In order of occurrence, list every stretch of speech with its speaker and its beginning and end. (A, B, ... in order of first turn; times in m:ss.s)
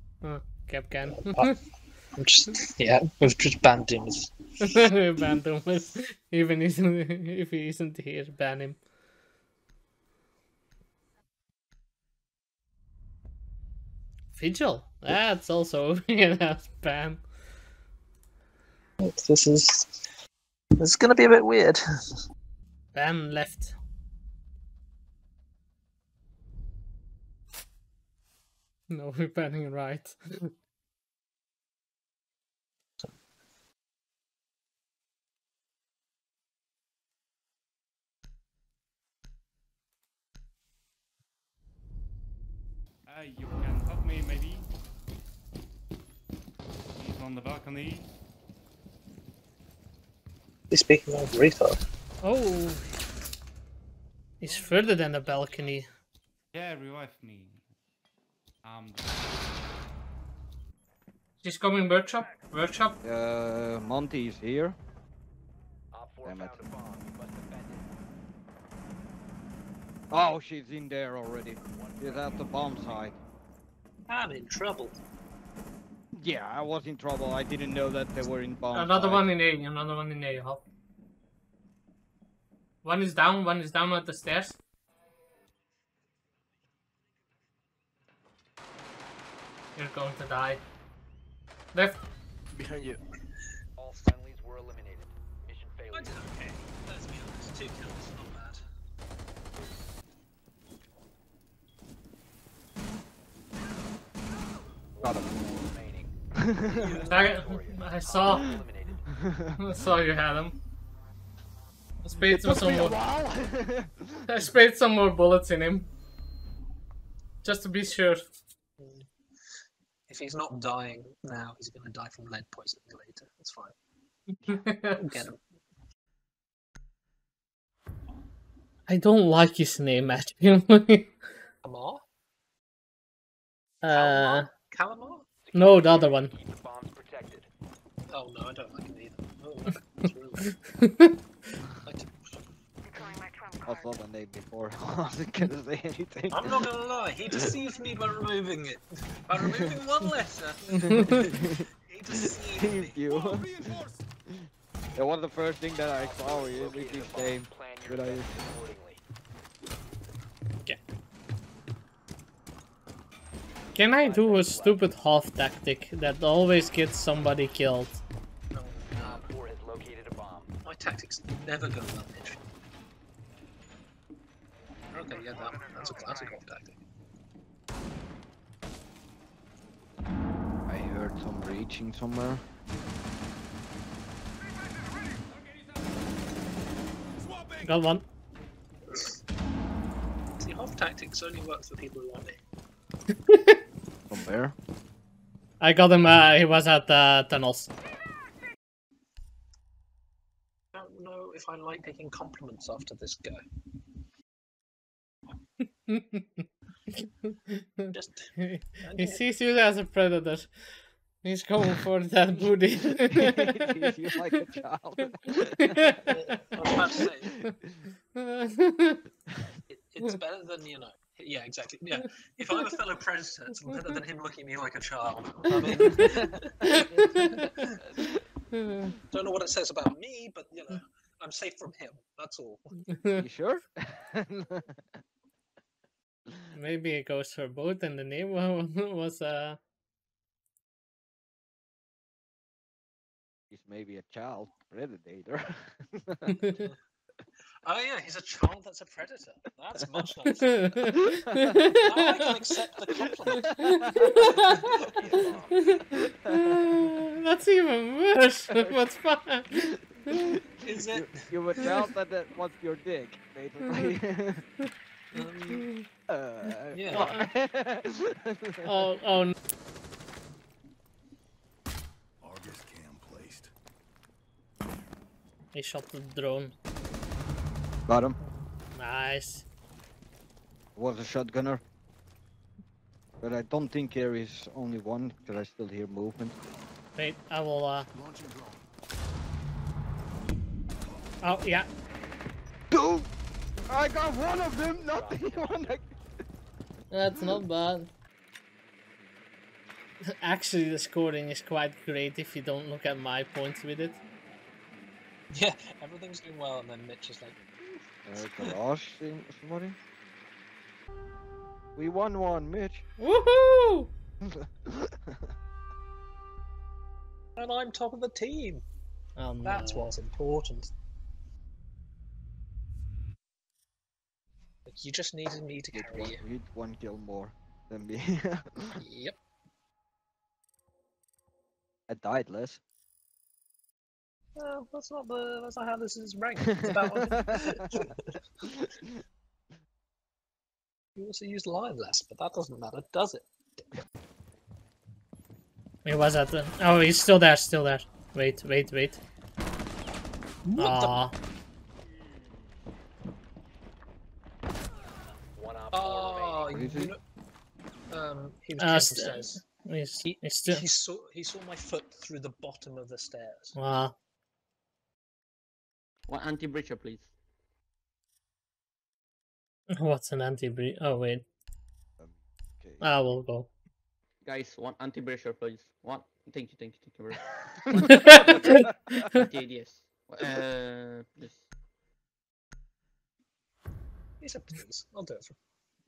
0:00.2-0:01.5 A
0:01.0-0:01.6 B
0:02.2-0:04.3 B
0:04.6-0:08.8 A
0:14.3-0:17.2 A
0:19.0-0:19.9 B
0:20.8-0:21.8 B
0:22.9-0:23.7 A
0:28.9-0:30.5 A
0:43.0-0:44.7 C
0:47.0-0:48.1 C
0:50.7-0:51.8 B
0:52.2-0:52.8 A
0:54.4-0:55.9 A
0:54.4-0:55.3 B
0:56.5-0:57.6 C
0:58.6-0:59.5 C
1:01.4-1:03.0 A
1:03.0-1:04.8 D
1:05.9-1:07.9 E
1:06.2-1:06.6 D
1:10.1-1:13.2 D
1:11.7-1:13.0 E
1:14.1-1:15.0 B
1:16.2-1:19.3 D
1:18.7-1:20.6 A
1:22.8-1:24.6 A
1:29.8-1:30.6 A
1:32.6-1:33.0 D
1:33.8-1:36.3 E
1:35.9-1:38.6 B
1:44.9-1:46.1 E
1:45.0-1:45.3 D
1:46.4-1:46.9 D
1:46.7-1:47.3 B
1:46.7-1:49.1 E
1:47.1-1:48.5 A
1:49.2-1:49.6 D
1:49.6-1:50.6 A
1:52.0-1:53.0 A
1:52.2-1:54.3 D
1:54.3-1:55.9 A
1:57.4-1:58.2 A
1:58.8-1:59.1 B
2:00.1-2:03.7 B
2:04.5-2:05.2 A
2:04.9-2:05.4 B
2:08.9-2:11.1 A
2:11.6-2:12.0 B
2:13.8-2:14.5 A
2:13.9-2:15.3 B
2:15.4-2:17.5 E
2:15.5-2:16.3 A
2:18.1-2:20.5 B
2:20.8-2:21.1 A
2:21.8-2:22.1 B
2:23.6-2:26.6 D
2:26.3-2:31.4 B
2:30.7-2:31.6 D
2:31.9-2:33.1 B
2:32.5-2:33.8 D
2:33.2-2:34.0 F
2:35.0-2:38.3 D
2:36.0-2:39.0 E
2:43.7-2:48.0 A
2:44.0-2:44.8 E
2:48.5-2:49.2 B
2:49.0-2:50.5 E
2:50.6-2:52.4 B
2:54.9-2:56.8 B
3:00.7-3:02.4 D
3:07.3-3:07.6 F
3:07.6-3:08.0 A
3:10.4-3:12.4 B
3:13.3-3:13.5 A
3:14.1-3:14.5 D
3:15.6-3:17.7 A
3:20.7-3:23.4 B
3:25.9-3:26.4 A
3:27.0-3:33.7 A
3:27.9-3:29.2 B
3:32.3-3:36.1 D
3:36.1-3:37.4 B
3:38.1-3:39.0 A
3:39.7-3:47.8 B
3:46.7-3:47.5 A
3:48.5-3:48.8 A
3:49.1-3:52.7 B
3:53.2-3:54.8 D
3:56.5-3:59.6 A
4:03.5-4:06.4 D
4:07.6-4:10.6 B
4:10.6-4:12.3 A
4:11.7-4:15.4 B
4:13.2-4:14.2 D
4:14.0-4:14.4 A
4:14.5-4:15.6 E
4:15.0-4:15.4 D
4:15.7-4:19.8 A
4:16.3-4:16.8 D
4:20.1-4:24.4 D
4:20.6-4:21.7 B
4:25.1-4:25.7 B
4:26.1-4:28.7 D
4:26.7-4:27.1 B
4:26.9-4:27.2 A
4:28.6-4:29.3 A
4:32.2-4:33.5 F
4:35.5-4:36.5 A
4:37.9-4:38.2 D
4:38.7-4:39.4 A
4:40.8-4:41.6 D
4:43.2-4:46.4 D
4:47.0-4:47.9 A
4:48.0-4:48.6 F
4:51.2-4:51.7 A
4:52.7-4:53.1 D
4:53.7-4:55.9 D
4:54.7-4:55.8 E
4:56.9-4:57.9 A
5:00.2-5:04.0 A
5:05.3-5:08.4 B
5:08.0-5:09.8 D
5:11.8-5:12.8 D
5:13.0-5:13.9 A
5:14.2-5:15.2 D
5:17.4-5:18.6 B
5:19.2-5:19.9 A
5:19.4-5:20.7 B
5:24.7-5:26.2 B
5:25.7-5:28.8 D
5:28.8-5:29.2 B
5:31.9-5:32.6 D
5:34.4-5:38.2 B
5:36.8-5:37.2 D
5:41.0-5:43.3 B
5:45.8-5:49.0 A
5:50.4-5:51.0 B
5:50.6-5:51.1 A
5:55.4-5:56.6 E
5:55.7-5:57.0 B
5:56.5-5:56.9 D
5:57.9-5:59.4 B
5:58.6-6:00.6 A
6:00.0-6:03.5 B
6:03.6-6:03.9 A
6:06.1-6:07.1 G
6:09.7-6:11.2 A
6:12.0-6:12.9 D
6:12.8-6:13.5 A
6:14.2-6:21.4 G
6:18.1-6:18.5 A
6:24.2-6:25.4 B